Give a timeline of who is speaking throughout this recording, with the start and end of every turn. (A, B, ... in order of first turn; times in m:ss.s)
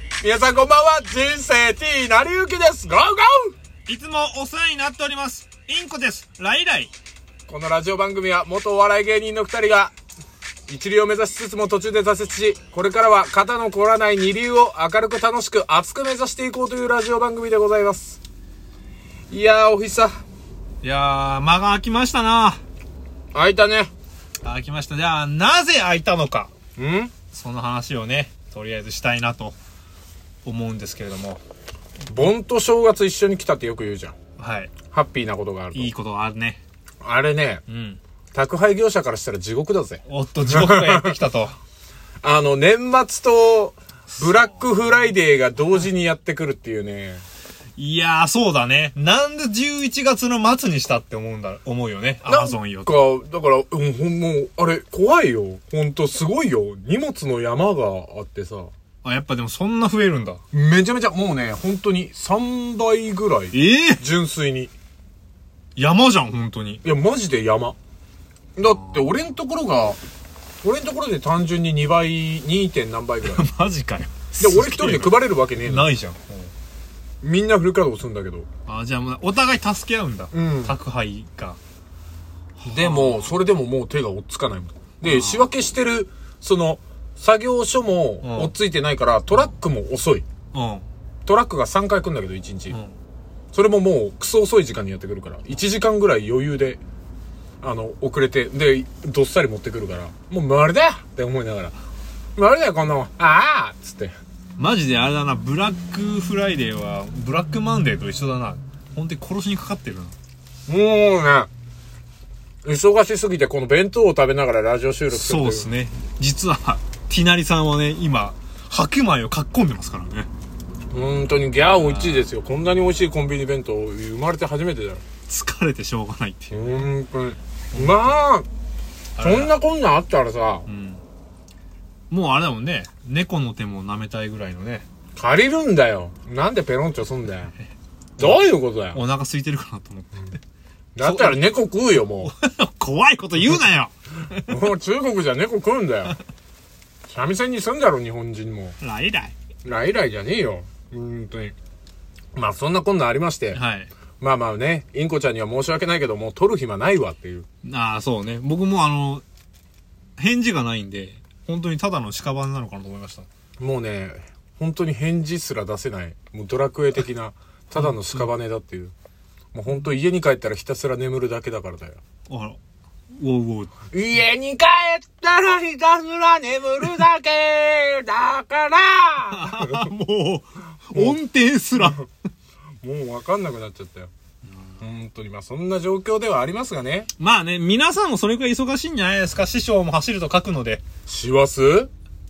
0:00.2-0:03.6 A
0:03.9-0:06.9 B
0:07.5-0:09.9 A
0:10.7-0:18.2 A
0:19.3-0:20.2 A
0:20.8-0:22.6 B
0:23.3-0:23.9 A
0:24.4-0:26.5 B
0:26.8-0:27.1 A
0:27.3-0:29.6 B
0:30.4-0:31.4 B
0:32.1-0:34.2 A
0:34.4-0:34.7 B
0:34.9-0:35.9 A
0:35.7-0:36.6 B
0:37.0-0:37.6 A
0:37.7-0:38.0 B
0:38.3-0:41.2 A
0:40.0-0:41.6 B
0:42.2-0:47.2 A
0:44.2-0:45.0 B
0:47.8-0:53.1 B
0:52.2-0:58.7 A
0:59.0-1:00.4 B
1:00.5-1:04.7 A
1:03.5-1:04.0 B
1:05.8-1:06.8 B
1:06.8-1:07.8 A
1:08.6-1:10.0 A
1:08.6-1:09.2 B
1:10.6-1:13.5 A
1:13.3-1:16.5 B
1:14.4-1:16.0 A
1:17.2-1:18.5 A
1:18.7-1:21.6 B
1:20.3-1:20.8 A
1:22.6-1:23.4 B
1:22.6-1:30.2 A
1:25.0-1:25.5 B
1:28.2-1:28.5 B
1:30.5-1:30.9 B
1:31.3-1:32.8 A
1:32.7-1:33.0 B
1:33.5-1:36.8 A
1:37.6-1:41.7 A
1:42.4-1:44.1 A
1:44.6-1:50.2 B
1:50.7-1:51.5 A
1:52.6-1:55.7 A
1:55.1-2:00.3 B
2:00.9-2:05.0 A
2:01.6-2:02.3 B
2:05.3-2:06.9 B
2:06.5-2:08.5 A
2:07.7-2:08.2 B
2:09.2-2:09.6 B
2:09.2-2:10.7 A
2:10.7-2:11.0 B
2:12.1-2:14.9 B
2:15.2-2:17.5 A
2:18.2-2:19.0 A
2:18.2-2:20.4 B
2:21.0-2:22.3 A
2:21.0-2:21.4 B
2:22.2-2:24.5 B
2:24.5-2:26.2 A
2:27.1-2:28.8 A
2:28.8-2:29.4 B
2:29.6-2:31.6 A
2:32.4-2:33.6 A
2:33.5-2:33.9 B
2:34.2-2:37.5 A
2:37.6-2:39.2 B
2:40.2-2:43.3 B
2:43.6-2:48.9 A
2:47.8-2:48.3 B
2:49.5-2:52.0 A
2:52.3-2:52.6 B
2:53.2-2:53.8 B
2:53.9-2:59.9 A
2:59.3-3:02.0 B
3:02.8-3:04.1 A
3:04.5-3:04.8 B
3:04.8-3:07.1 A
3:07.2-3:10.8 B
3:11.1-3:11.9 A